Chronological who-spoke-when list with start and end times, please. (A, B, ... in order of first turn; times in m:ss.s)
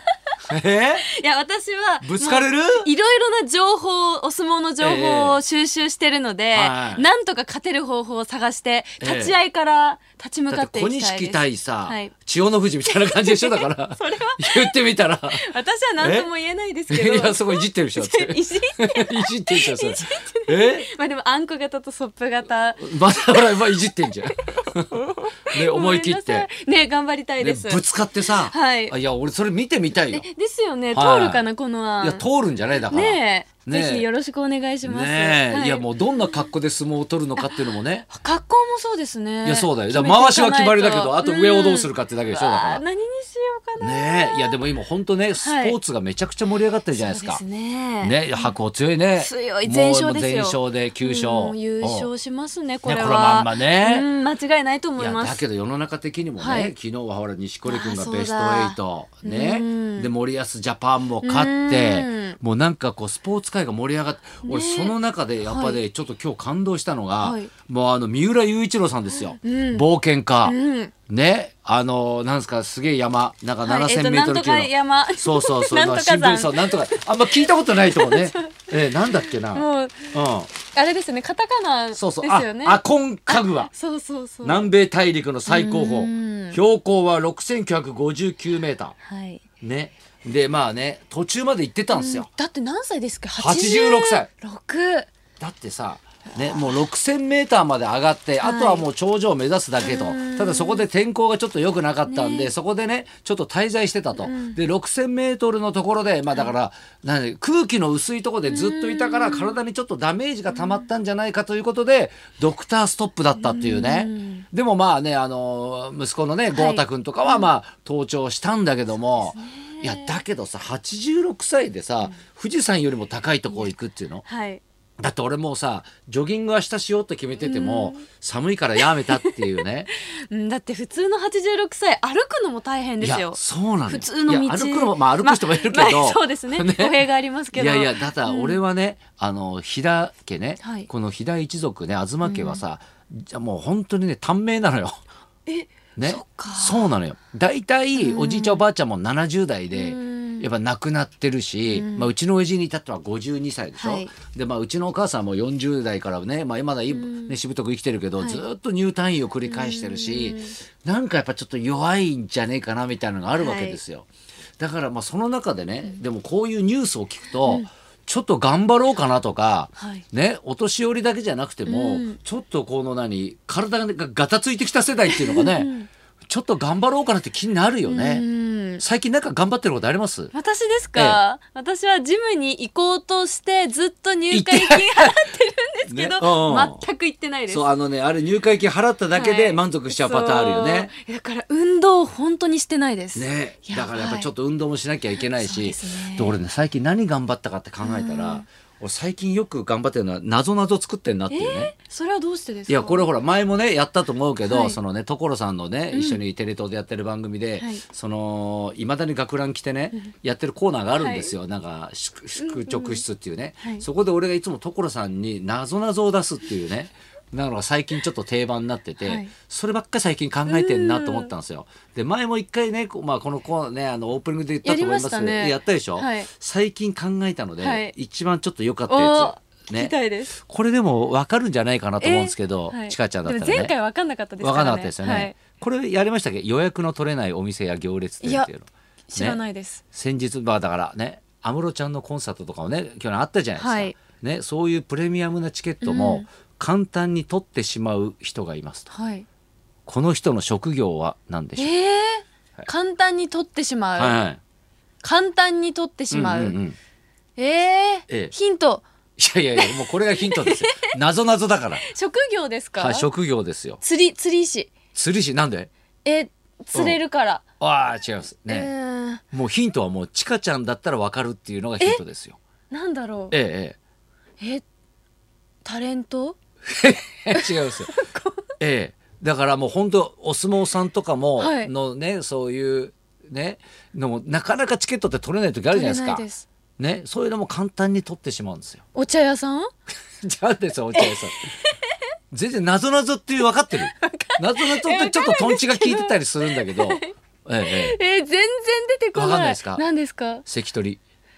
0:00.5-0:01.1 A
0:01.1-0:12.1 B
0:02.0-0:02.9 A
0:04.8-0:05.4 A
0:06.5-0:07.0 A
0:09.0-0:09.4 A
0:10.5-0:15.4 A
0:13.0-0:14.8 B
0:15.3-0:24.6 B
0:16.0-0:16.3 A
0:16.9-0:20.9 A
0:22.8-0:26.5 A
0:25.5-0:28.9 B
0:27.4-0:30.3 A
0:30.1-0:32.2 B
0:30.9-0:31.4 A
0:32.0-0:34.1 A
0:32.9-0:36.4 B
0:34.8-0:38.1 A
0:37.4-0:44.6 B
0:39.4-0:42.8 A
0:43.8-0:47.4 A
0:45.4-0:45.8 B
0:46.9-0:48.5 B
0:48.0-0:52.1 A
0:49.2-0:55.4 B
0:52.8-0:54.1 A
0:55.0-1:10.6 A
0:56.4-0:56.7 B
0:57.6-1:00.1 B
1:01.2-1:02.4 B
1:04.4-1:04.9 B
1:05.5-1:05.8 B
1:07.2-1:07.5 B
1:09.3-1:09.9 B
1:10.4-1:10.9 B
1:11.1-1:20.5 A
1:13.6-1:18.6 B
1:19.1-1:20.2 B
1:20.7-1:24.7 B
1:22.0-1:23.7 A
1:24.4-1:29.0 A
1:25.5-1:26.6 B
1:29.0-1:29.4 B
1:29.6-1:32.3 A
1:31.9-1:35.1 B
1:33.4-1:34.3 A
1:35.4-2:04.2 A
1:36.3-1:36.7 B
1:38.4-1:38.9 B
1:39.8-1:40.9 B
1:42.1-1:42.5 B
1:44.2-1:44.6 B
1:48.5-1:49.6 B
1:50.5-1:50.9 B
1:53.4-1:54.5 B
1:56.5-1:57.5 B
1:59.1-2:00.2 B
2:04.2-2:04.6 B
2:05.0-2:09.9 A
2:07.4-2:08.0 B
2:09.9-2:18.6 B
2:13.0-2:17.0 A
2:17.5-2:25.0 A
2:20.6-2:20.9 B
2:22.2-2:22.6 B
2:25.5-2:26.9 B
2:26.0-2:44.1 A
2:28.0-2:28.6 B
2:29.7-2:30.5 B
2:31.7-2:32.1 B
2:33.8-2:34.1 B
2:36.9-2:37.4 B
2:38.2-2:38.4 B
2:39.5-2:40.6 B
2:43.4-2:43.8 B
2:44.6-2:55.7 A
2:49.8-2:50.0 B
2:51.7-2:52.2 B
2:55.1-2:55.9 B
2:56.3-2:58.2 A
2:57.9-2:58.8 B
2:58.8-3:00.3 A
3:00.3-3:07.7 B
3:01.0-3:01.2 A
3:04.3-3:05.2 A
3:05.9-3:06.8 A
3:07.5-3:10.9 A
3:09.1-3:14.3 B
3:13.2-3:21.7 A
3:15.3-3:16.4 B
3:17.8-3:18.5 B
3:21.3-3:23.1 B
3:22.7-3:53.7 A
3:24.5-3:24.8 B
3:25.9-3:26.2 B
3:31.0-3:31.3 B
3:32.4-3:33.0 B
3:33.6-3:33.8 B
3:39.0-3:39.3 B
3:40.5-3:41.3 B
3:44.6-3:46.3 B
3:47.6-3:47.9 B
3:48.9-3:50.3 B
3:52.0-3:55.4 B
3:54.4-3:59.4 A
3:58.2-3:58.5 B
3:59.1-3:59.8 B
3:59.9-4:08.9 A
4:03.6-4:04.0 B
4:05.8-4:06.3 B
4:08.9-4:09.3 B
4:09.9-4:11.7 A
4:11.6-4:14.2 B
4:14.0-4:14.4 A
4:15.0-4:16.6 B
4:16.1-4:16.8 A
4:17.4-4:18.8 B
4:18.1-4:18.3 A
4:19.2-4:21.8 A
4:19.6-4:20.9 B
4:21.8-4:23.1 B
4:22.8-4:23.8 A
4:23.8-4:24.7 B
4:24.9-4:25.7 A
4:26.0-4:27.4 B
4:27.6-4:28.7 A
4:28.5-4:29.2 B
4:29.3-4:32.4 A
4:32.7-4:33.4 B
4:33.3-4:33.8 A
4:35.6-4:36.4 B
4:36.7-4:37.9 A
4:37.3-4:38.4 B
4:38.6-4:46.3 A
4:41.4-4:41.7 B
4:45.7-4:46.5 B
4:46.8-4:48.8 A
4:49.0-4:49.7 B
4:50.2-4:51.5 A
4:52.3-4:58.0 A
4:53.8-4:57.1 B
4:57.7-5:00.4 B
4:59.2-4:59.8 A
5:00.4-5:01.0 A